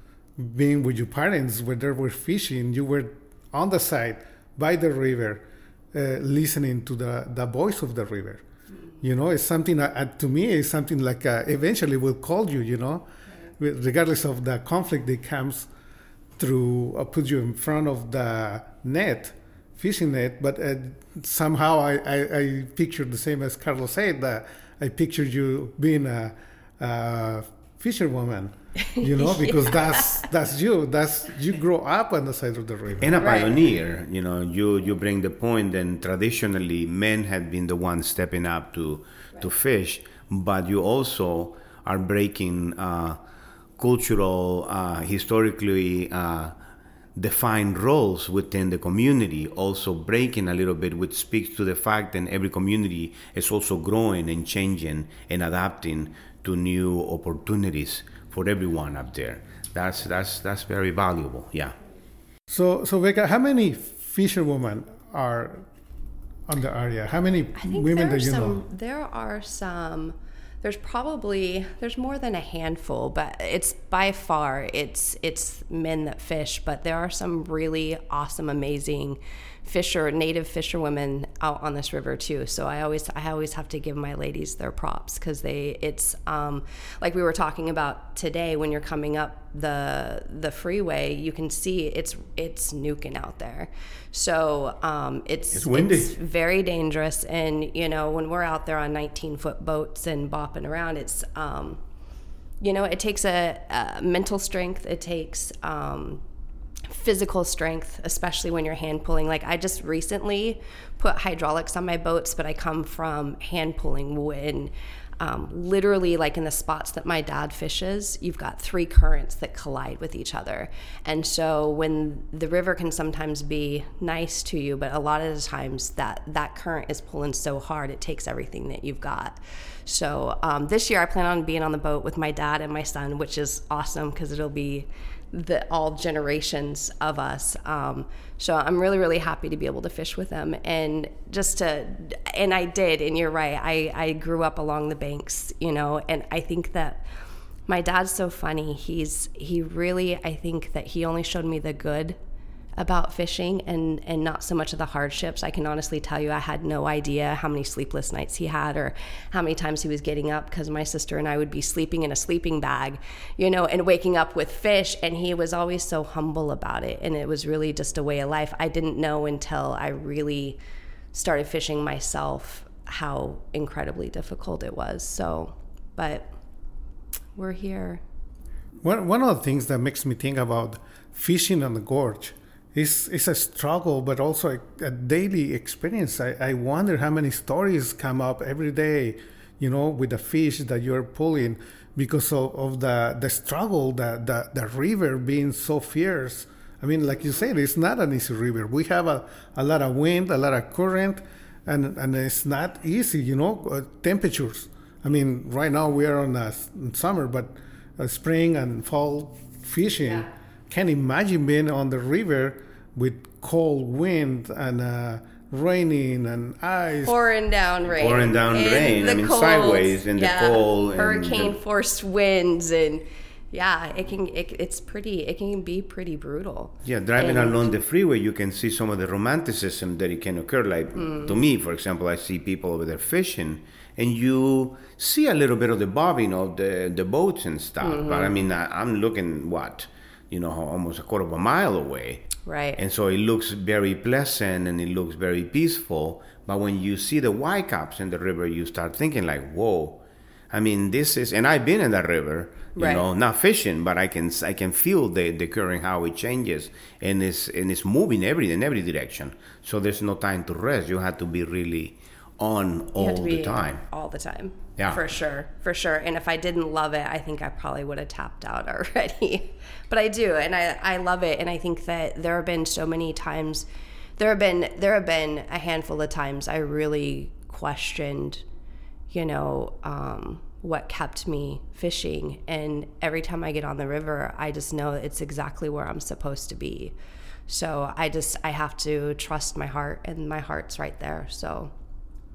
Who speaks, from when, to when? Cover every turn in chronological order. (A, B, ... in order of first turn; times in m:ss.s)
0:00.4-0:08.4 A
0:09.0-0:13.0 A
0:13.6-0:15.7 A
0:16.4-0:33.2 A
0:29.0-0:30.0 B
0:33.0-0:43.2 C
0:33.2-0:33.6 B
0:43.8-0:46.6 C
0:47.2-1:01.8 C
1:02.5-1:05.7 A
1:06.5-1:08.6 A
1:07.6-1:41.8 B
1:35.5-1:36.2 C
1:42.6-1:46.2 B
1:46.9-2:27.1 B
2:27.7-2:32.2 B
2:32.8-2:50.6 B
2:51.1-2:56.3 B
2:57.4-2:58.0 B
2:58.8-3:37.2 A
3:37.0-3:47.6 B
3:37.9-3:41.6 C
3:46.8-4:23.8 C
3:51.0-3:51.3 B
3:57.8-3:58.4 B
4:02.4-4:02.8 B
4:12.8-4:13.1 B
4:23.0-4:33.7 B
4:24.8-4:25.0 C
4:34.2-4:38.4 B
4:39.1-4:46.9 B
4:47.5-4:51.7 B